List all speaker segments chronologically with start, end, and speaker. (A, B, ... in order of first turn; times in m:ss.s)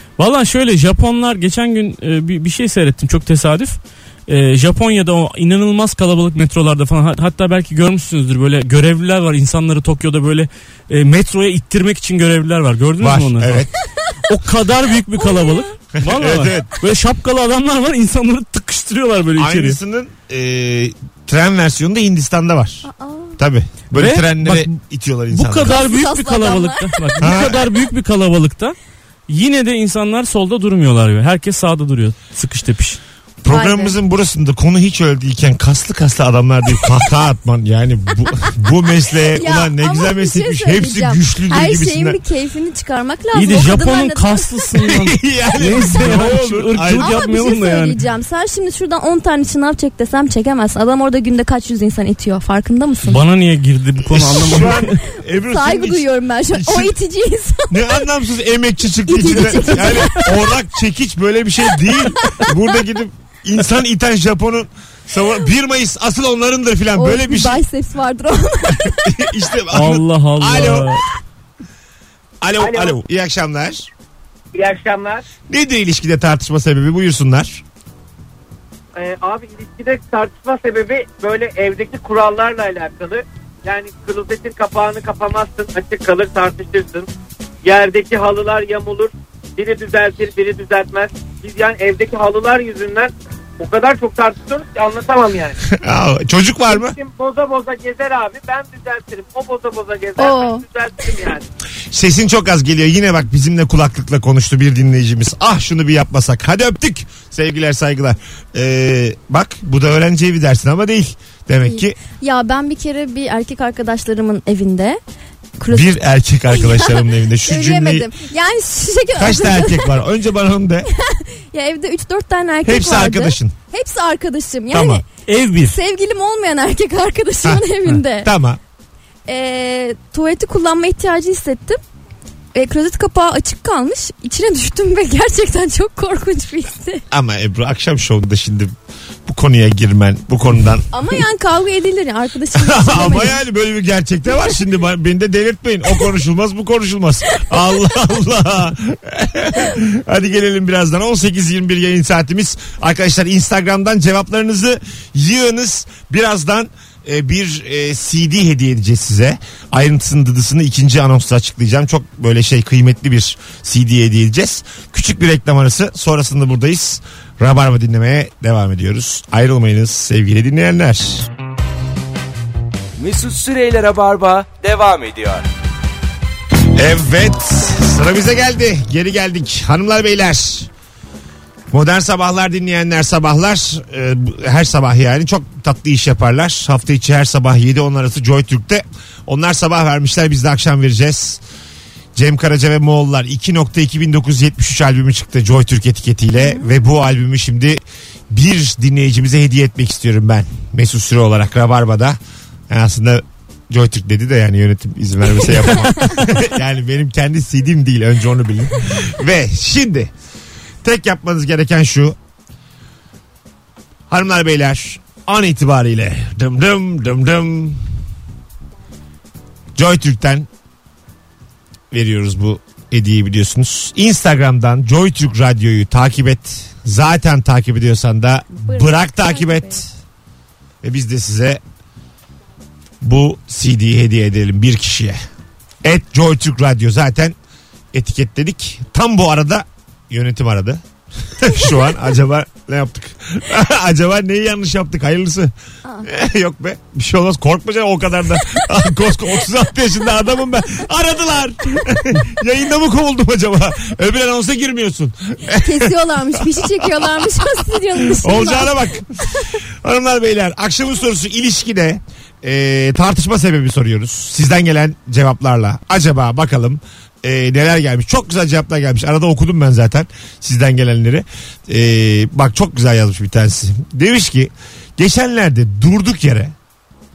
0:00.2-0:13.6 A
0:13.0-0:13.7 B
0:14.3-0:19.8 A
0:15.2-0:15.7 C
0:15.9-0:16.7 B
0:19.4-0:22.9 B
0:22.8-0:23.4 C
0:23.4-0:25.8 B
0:23.9-0:24.7 A
0:25.3-0:28.8 A
0:25.6-0:27.1 C
0:27.2-0:27.6 B
0:29.3-0:33.0 A
0:33.4-0:42.2 B
0:33.5-0:34.0 C
0:39.3-0:44.6 C
0:43.3-0:48.0 A
0:44.8-0:47.2 B
0:47.0-0:53.2 C
0:53.0-0:55.0 A
0:54.0-0:56.9 B
0:55.4-0:58.1 C
0:57.7-1:07.6 B
0:59.0-1:00.3 C
1:02.2-1:02.5 C
1:06.9-1:09.2 C
1:08.8-1:10.9 B
1:09.7-1:11.0 A
1:12.4-1:13.9 B
1:12.6-1:12.9 D
1:14.5-1:15.2 D
1:15.5-1:17.6 B
1:19.0-1:27.1 D
1:27.6-1:35.6 D
1:35.6-1:37.0 B
1:36.7-1:41.4 D
1:40.2-1:40.6 C
1:41.9-1:52.0 B
1:51.7-1:55.0 C
1:55.6-1:56.0 C
1:55.7-1:58.1 B
1:56.5-2:00.0 C
1:59.2-2:00.9 B
2:00.9-2:05.0 C
2:02.6-2:03.5 B
2:04.7-2:05.0 B
2:05.2-2:05.8 A
2:05.6-2:08.3 C
2:07.4-2:08.6 B
2:09.3-2:11.8 C
2:12.5-2:17.0 C
2:17.1-2:18.7 B
2:19.2-2:20.9 B
2:20.9-2:23.4 C
2:22.5-2:51.3 B
2:53.0-2:55.4 E
2:56.7-3:00.7 B
3:01.7-3:11.4 B
3:12.1-3:22.2 B
3:22.7-3:30.1 B
3:30.8-3:32.2 B
3:34.1-3:37.8 B
3:39.7-3:40.5 B
3:41.9-3:49.9 B
3:48.5-3:49.8 C
3:50.8-3:51.6 B
3:53.0-3:55.2 B
3:55.8-3:57.4 B
3:57.9-4:00.8 B
4:01.4-4:05.5 B
4:06.0-4:36.5 B
4:15.5-4:18.8 C